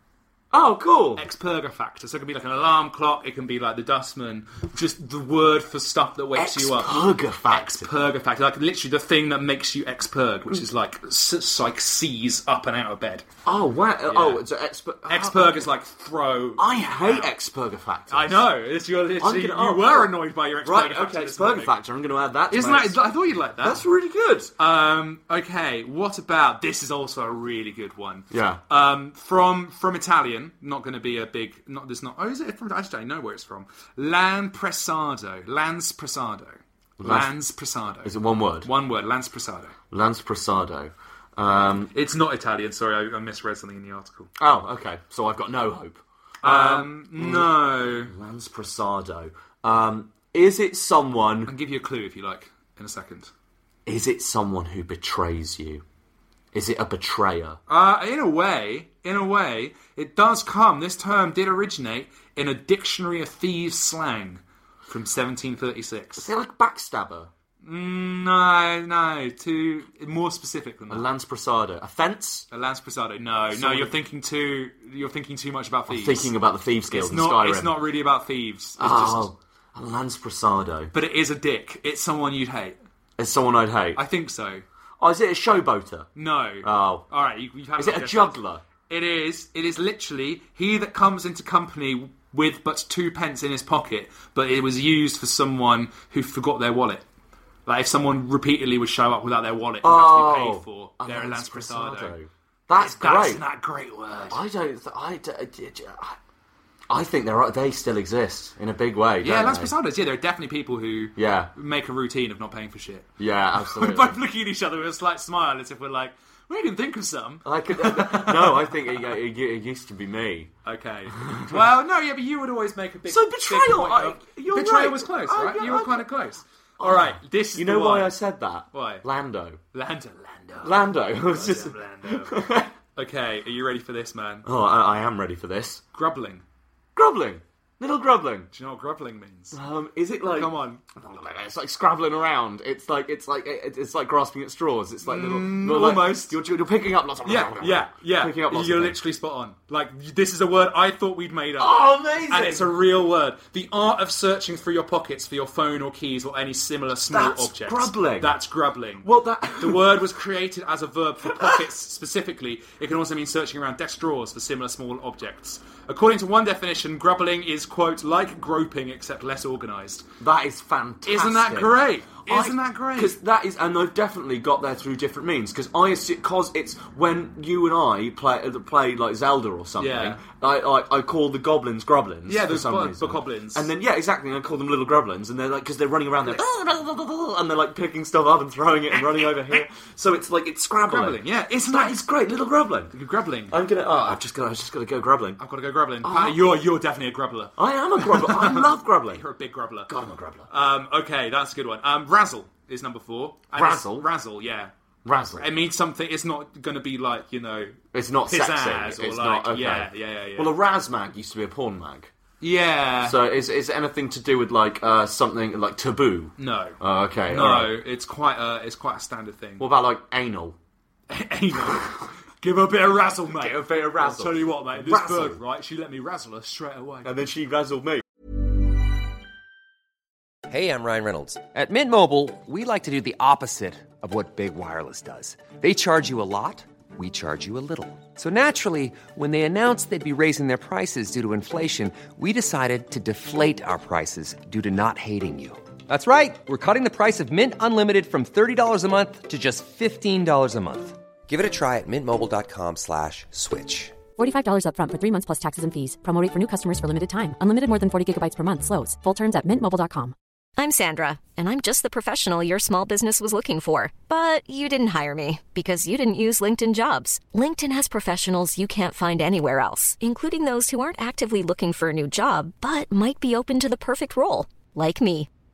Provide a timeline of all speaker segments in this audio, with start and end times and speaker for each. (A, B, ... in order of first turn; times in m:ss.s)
0:00.5-0:01.3 A
0:01.2-0:13.2 B
0:06.4-0:07.9 A
0:13.4-0:15.7 A
0:14.1-0:14.4 B
0:15.1-0:17.3 B
0:16.6-0:18.5 A
0:18.1-0:21.7 B
0:19.2-0:23.1 A
0:22.5-0:23.8 B
0:23.6-0:24.5 A
0:24.6-0:39.8 B
0:28.3-0:28.6 A
0:37.0-0:37.4 A
0:38.0-0:38.7 A
0:39.9-0:41.9 A
0:41.9-0:44.3 B
0:44.4-0:51.5 A
0:46.4-0:48.1 B
0:51.5-0:53.3 B
0:53.9-0:55.8 A
0:56.5-0:57.6 A
0:57.7-1:06.3 B
1:06.2-1:07.3 A
1:07.6-1:11.1 B
1:10.9-1:12.5 A
1:12.5-1:16.3 B
1:13.5-1:13.9 A
1:15.9-1:17.8 A
1:16.9-1:19.3 B
1:18.8-1:20.9 A
1:20.9-1:22.8 B
1:23.2-1:24.0 A
1:24.0-1:24.6 B
1:25.0-1:26.1 A
1:26.2-1:37.0 B
1:26.6-1:27.1 A
1:27.8-1:28.6 A
1:37.7-1:42.2 B
1:39.8-1:43.4 A
1:42.8-1:44.4 B
1:44.3-1:46.2 A
1:46.9-1:49.7 A
1:49.2-1:59.0 B
1:51.2-1:51.5 A
1:53.2-1:54.2 A
1:57.4-2:00.5 A
2:00.6-2:08.2 B
2:01.2-2:01.6 A
2:03.1-2:06.1 A
2:06.8-2:09.6 A
2:08.7-2:09.0 B
2:09.7-2:14.5 B
2:10.6-2:12.7 A
2:14.4-2:15.8 A
2:15.9-2:16.4 B
2:17.0-2:18.5 A
2:18.5-2:19.6 B
2:19.5-2:29.0 A
2:20.3-2:20.8 B
2:25.0-2:26.4 B
2:27.2-2:50.1 B
2:31.6-2:32.8 A
2:37.1-2:38.4 A
2:39.0-2:40.0 A
2:41.3-2:41.6 A
2:50.2-3:12.9 A
2:51.1-2:53.2 B
2:59.8-3:00.2 B
3:02.3-3:03.7 B
3:09.0-3:09.6 B
3:10.9-3:12.0 B
3:12.9-3:13.6 B
3:13.5-3:15.4 A
3:15.4-3:19.9 B
3:16.0-3:16.5 A
3:17.6-3:19.2 A
3:19.9-3:20.5 A
3:20.5-3:24.7 B
3:23.5-3:24.1 A
3:25.0-3:25.5 A
3:25.4-3:30.5 B
3:27.9-3:32.1 A
3:32.4-3:33.2 B
3:33.0-3:37.8 A
3:36.4-3:39.7 B
3:39.6-3:40.6 A
3:41.1-3:47.1 B
3:43.3-3:45.4 A
3:47.0-3:48.0 A
3:50.5-4:14.0 C
4:14.2-4:20.1 D
4:20.6-4:35.3 E